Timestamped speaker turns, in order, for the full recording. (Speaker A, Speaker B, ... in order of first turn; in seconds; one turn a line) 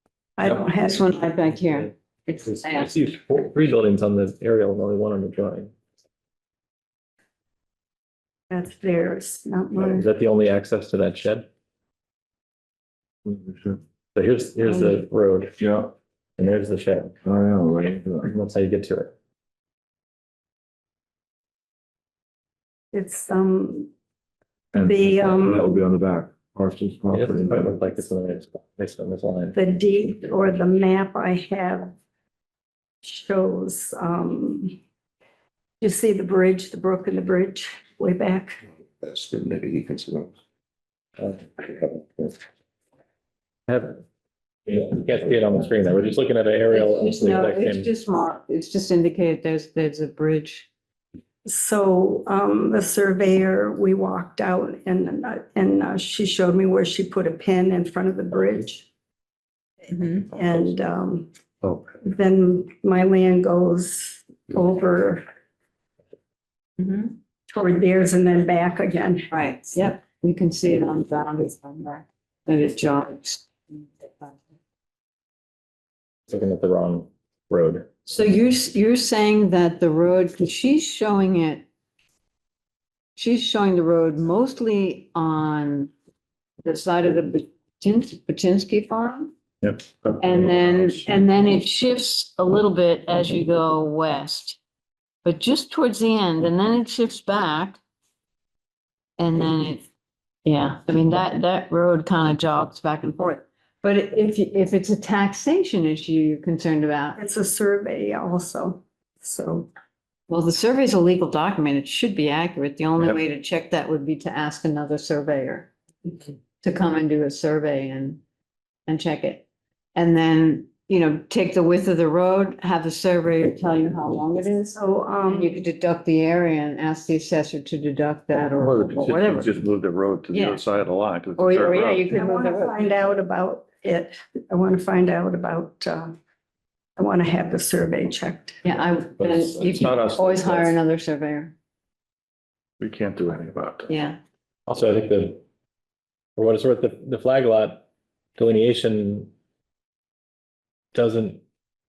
Speaker A: 0.4-1.1
Speaker B: 0.8-3.0
Speaker C: 2.4-5.7
Speaker A: 8.5-10.1
Speaker C: 9.8-11.5
Speaker D: 13.2-13.8
Speaker C: 14.1-15.6
Speaker D: 15.6-15.9
Speaker C: 16.4-17.2
Speaker D: 17.2-18.3
Speaker C: 18.2-19.1
Speaker A: 22.9-23.9
Speaker D: 24.7-27.7
Speaker A: 24.9-25.7
Speaker C: 27.1-29.5
Speaker A: 29.5-31.9
Speaker A: 33.0-34.8
Speaker A: 35.8-38.6
Speaker D: 39.0-40.3
Speaker D: 41.6-42.3
Speaker C: 43.7-44.0
Speaker C: 44.7-47.9
Speaker B: 46.7-50.7
Speaker A: 51.5-58.9
Speaker B: 59.9-60.3
Speaker A: 60.3-61.3
Speaker A: 62.0-65.2
Speaker B: 66.8-67.1
Speaker A: 67.5-69.3
Speaker B: 69.3-74.4
Speaker C: 76.3-77.9
Speaker B: 78.0-81.6
Speaker B: 83.2-85.9
Speaker B: 86.6-89.3
Speaker B: 90.0-94.6
Speaker B: 95.2-97.8
Speaker B: 99.2-99.8
Speaker B: 100.4-107.2
Speaker A: 107.2-109.7
Speaker B: 110.3-115.7
Speaker B: 116.6-118.2
Speaker B: 118.9-119.4
Speaker B: 119.9-129.5
Speaker A: 124.7-125.5
Speaker D: 128.6-132.0
Speaker B: 130.3-130.6
Speaker B: 131.3-132.8
Speaker A: 132.1-136.1
Speaker A: 137.0-138.6
Speaker B: 138.6-141.5
Speaker D: 139.2-140.8
Speaker D: 142.8-143.9
Speaker B: 143.9-144.2
Speaker C: 144.7-145.4
Speaker C: 146.3-147.8
Speaker C: 148.4-149.3
Speaker C: 150.9-151.4